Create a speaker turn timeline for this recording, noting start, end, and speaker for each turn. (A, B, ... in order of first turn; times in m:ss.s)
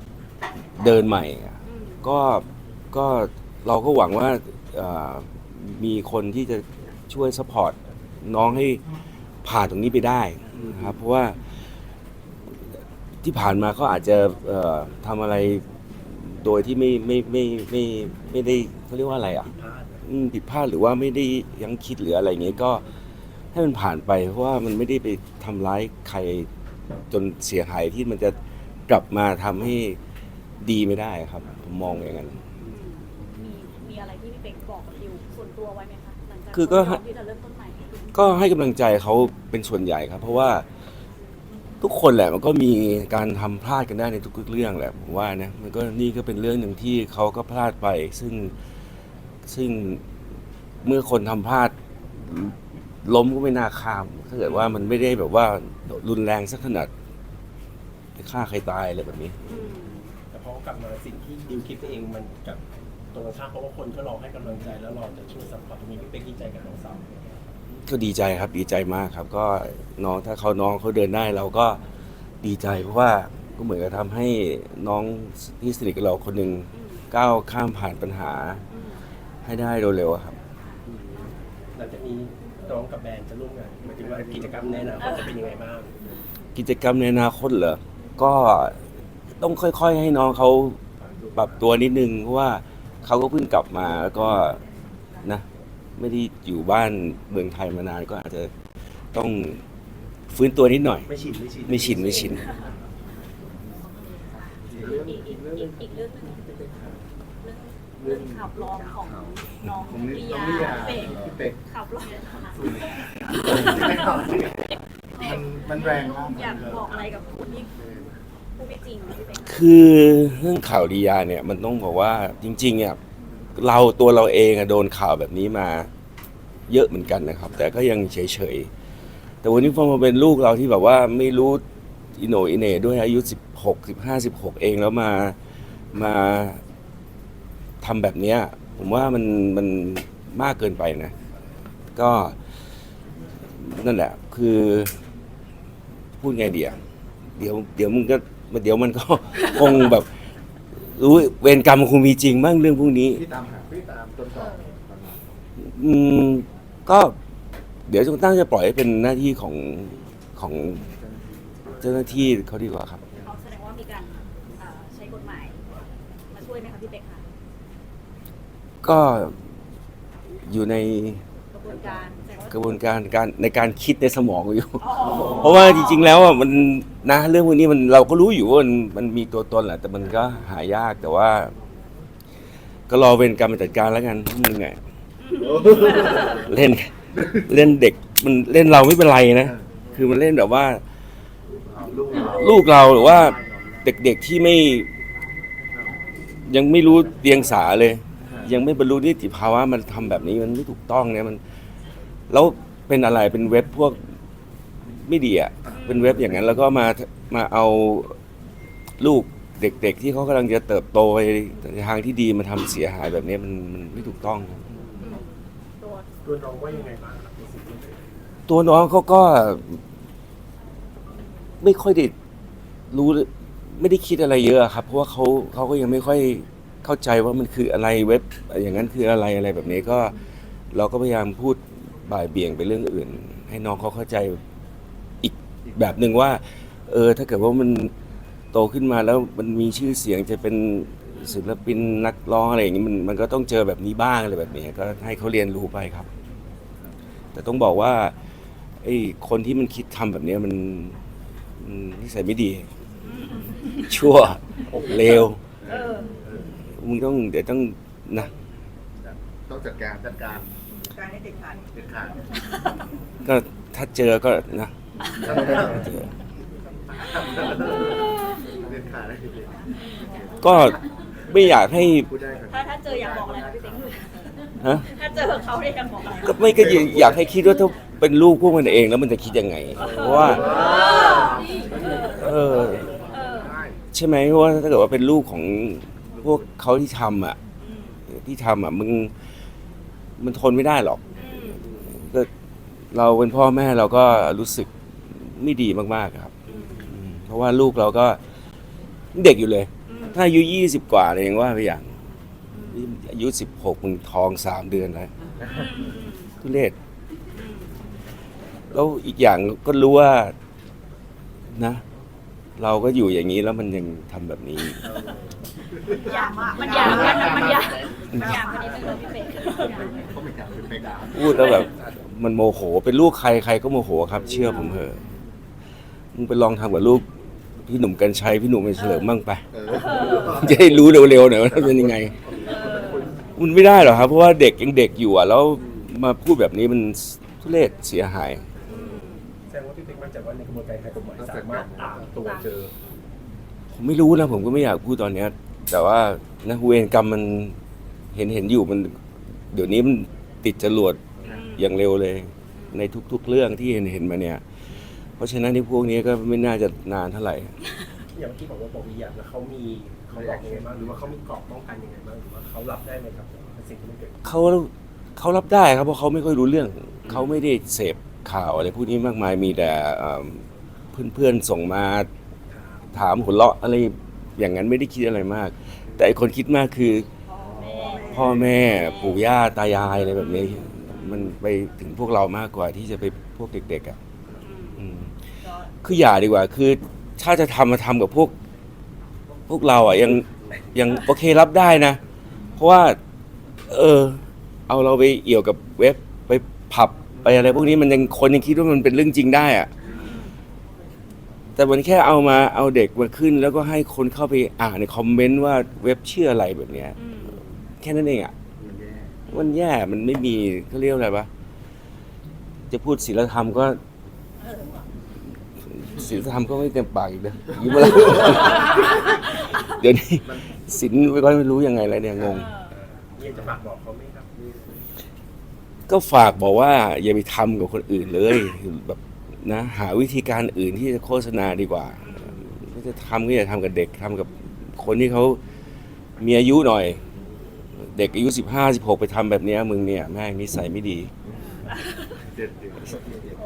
0:00.8-0:08.8 A
0:01.7-0:01.9 B
0:09.4-0:11.4 A
0:13.2-0:19.5 A
0:19.5-0:20.0 C
0:20.0-0:22.8 A
0:23.5-0:26.5 A
0:27.1-0:30.0 A
0:30.6-0:32.4 A
0:32.7-0:38.1 B
0:36.5-0:37.0 A
0:38.1-0:40.6 A
0:41.8-0:48.5 A
0:49.5-0:50.0 A
0:50.8-0:56.9 A
0:58.2-0:59.4 A
0:59.5-0:59.9 B
1:00.3-1:02.6 C
1:03.1-1:07.6 C
1:07.8-1:11.8 A
1:12.4-1:18.6 A
1:18.7-1:19.0 B
1:19.4-1:20.4 A
1:21.7-1:26.0 C
1:26.5-1:28.8 A
1:29.4-1:30.8 A
1:31.4-1:34.6 A
1:36.0-1:38.5 A
1:39.1-1:39.6 A
1:40.3-1:41.1 A
1:41.1-1:42.5 C
1:41.7-1:42.4 A
1:44.0-1:46.4 B
1:44.4-1:47.0 D
1:47.4-1:57.7 B
1:48.0-1:51.6 D
1:52.6-1:56.8 D
1:57.8-1:58.1 D
1:58.6-1:59.5 B
1:59.4-2:03.0 A
2:03.5-2:05.9 A
2:06.7-2:08.7 A
2:09.4-2:11.6 A
2:12.2-2:15.4 A
2:15.9-2:16.6 A
2:17.8-2:21.1 A
2:21.9-2:22.4 A
2:23.6-2:24.9 A
2:26.2-2:26.8 A
2:27.4-2:30.1 A
2:30.9-2:33.2 A
2:33.2-2:35.4 D
2:34.3-2:34.6 B
2:35.6-2:37.1 A
2:37.9-2:40.9 A
2:41.8-2:43.0 A
2:43.2-2:45.6 B
2:46.3-2:47.2 B
2:48.8-2:49.4 A
2:50.4-2:51.2 A
2:51.5-2:52.6 B
2:52.5-3:01.5 A
2:54.8-2:56.0 B
3:02.9-3:04.8 A
3:05.3-3:06.2 B
3:05.4-3:06.4 D
3:05.7-3:10.8 A
3:11.7-3:12.7 D
3:12.2-3:14.9 A
3:16.4-3:21.4 A
3:22.3-3:24.0 A
3:24.9-3:28.1 A
3:25.8-3:26.0 B
3:29.0-3:34.7 A
3:35.8-3:36.0 B
3:36.2-3:38.0 C
3:38.5-3:39.8 A
3:41.6-3:42.1 A
3:42.9-3:50.2 A
3:50.7-3:54.4 A
3:55.2-3:57.9 A
3:58.5-4:06.1 A
4:07.3-4:08.1 A
4:08.8-4:11.0 A
4:11.6-4:12.7 A
4:13.8-4:15.4 A
4:15.6-4:16.1 D
4:15.7-4:16.1 B
4:16.8-4:18.3 A
4:19.0-4:20.5 D
4:21.7-4:22.2 D
4:23.2-4:24.7 A
4:25.2-4:25.8 D
4:25.2-4:26.1 A
4:27.0-4:29.6 D
4:30.4-4:32.1 A
4:32.0-4:33.5 D
4:32.5-4:34.3 B
4:34.6-4:34.9 A
4:34.8-4:36.4 B
4:36.2-4:40.6 A
4:36.7-4:37.2 D
4:39.8-4:42.2 B
4:39.9-4:43.8 D
4:42.0-4:43.0 A
4:43.1-4:43.6 B
4:43.9-4:47.4 A
4:47.6-4:48.0 B
4:48.1-4:49.1 A
4:50.2-4:52.3 A
4:51.2-4:51.6 B
4:52.9-4:56.3 A
4:56.4-4:56.9 B
4:56.8-4:58.2 A
4:59.1-5:01.9 A
4:59.9-5:00.2 B
5:02.5-5:02.8 B
5:02.7-5:05.1 A
5:05.5-5:06.3 B
5:06.4-5:06.7 A
5:07.4-5:07.7 B
5:08.7-5:10.3 A
5:11.5-5:11.8 A
5:12.6-5:14.8 A
5:15.9-5:16.1 D
5:15.9-5:20.0 B
5:16.6-5:18.2 D
5:18.1-5:18.4 A
5:19.6-5:21.7 D
5:21.1-5:25.0 A
5:26.1-5:27.0 A
5:27.6-5:32.2 A
5:29.5-5:30.9 D
5:31.7-5:33.3 D
5:32.6-5:32.9 B
5:33.4-5:38.4 A
5:38.7-5:39.2 B
5:39.5-5:42.7 C
5:41.3-5:42.0 D
5:42.2-5:43.0 B
5:43.7-5:47.6 A
5:48.1-5:48.9 A
5:49.5-5:51.0 A
5:51.3-5:51.6 B
5:51.5-5:54.4 A
5:55.2-5:57.5 A
5:58.1-6:04.3 C
6:00.1-6:01.0 D
6:04.2-6:12.1 A
6:12.9-6:17.1 A
6:17.3-6:18.2 B
6:17.6-6:18.3 D
6:18.0-6:24.0 A
6:24.4-6:24.8 B
6:24.8-6:25.1 A
6:25.8-6:28.3 A
6:29.5-6:32.0 A
6:32.6-6:33.0 A
6:33.7-6:39.7 A
6:41.6-6:47.0 A
6:47.0-6:47.4 B
6:47.8-6:48.3 A
6:48.6-6:49.1 D
6:49.3-6:51.3 A
6:52.7-6:53.8 A
6:54.4-6:54.8 B
6:55.7-7:02.6 A
7:02.4-7:02.6 B
7:02.9-7:04.3 C
7:05.9-7:15.4 A
7:16.2-7:17.0 A
7:17.9-7:21.1 A
7:22.3-7:23.0 D